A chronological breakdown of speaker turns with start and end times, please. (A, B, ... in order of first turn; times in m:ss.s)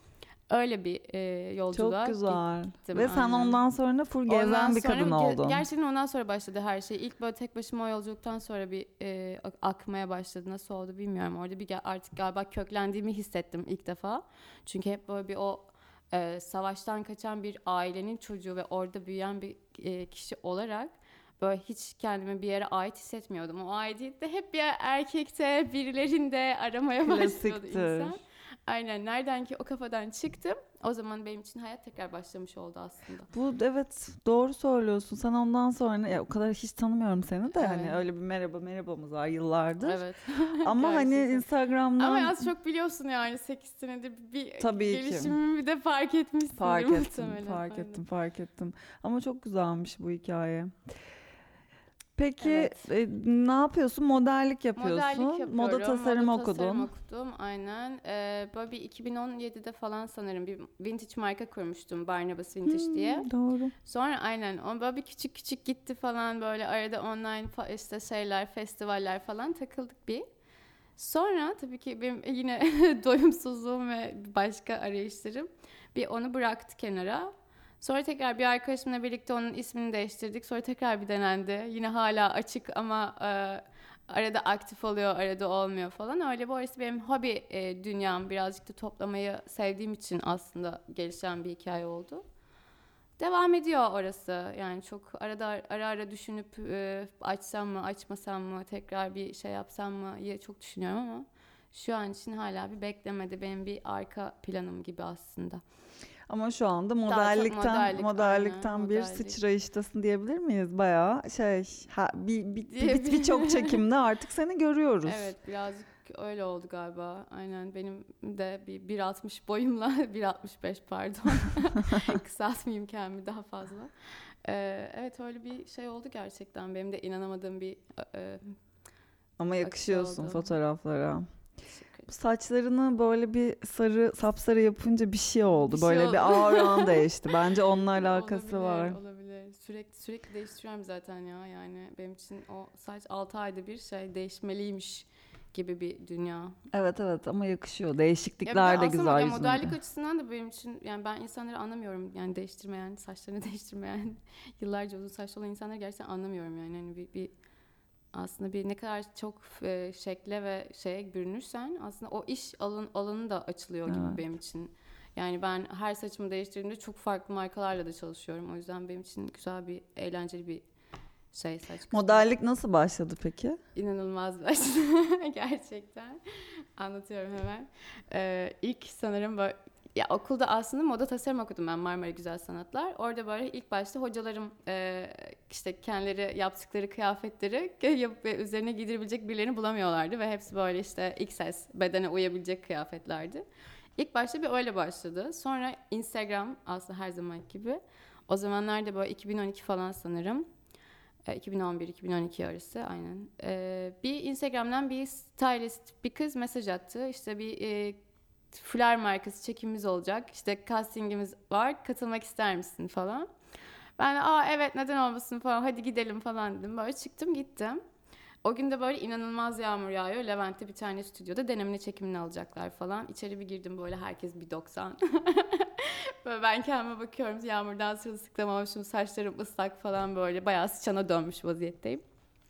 0:00.5-0:03.6 A
0:01.7-0:05.6 B
0:04.2-0:33.3 A
0:27.0-0:28.2 B
0:33.3-0:40.0 B
0:37.5-0:38.0 A
0:39.8-0:48.0 A
0:40.6-0:42.5 B
0:44.6-0:45.4 B
0:46.6-0:50.8 B
0:52.2-0:56.9 B
0:52.4-0:52.9 A
0:54.7-1:03.3 A
1:02.7-1:03.7 B
1:03.8-1:10.2 A
1:11.0-1:32.2 A
1:33.2-1:45.6 A
1:46.3-1:55.3 B
1:47.1-1:49.4 A
1:52.7-1:53.8 A
1:55.0-2:08.6 A
2:09.4-2:11.3 B
2:09.6-2:10.5 A
2:11.7-2:12.1 A
2:12.1-2:19.0 B
2:15.5-2:17.1 A
2:17.9-2:26.6 A
2:26.7-2:29.7 B
2:28.4-2:37.3 A
2:38.1-2:50.6 A
2:43.9-2:44.2 B
2:51.3-2:52.2 A
2:51.9-2:53.6 B
2:53.7-3:13.4 A
3:14.0-3:20.4 A
3:21.3-3:28.0 A
3:28.5-3:33.3 A
3:34.0-3:37.8 A
3:38.4-3:52.0 A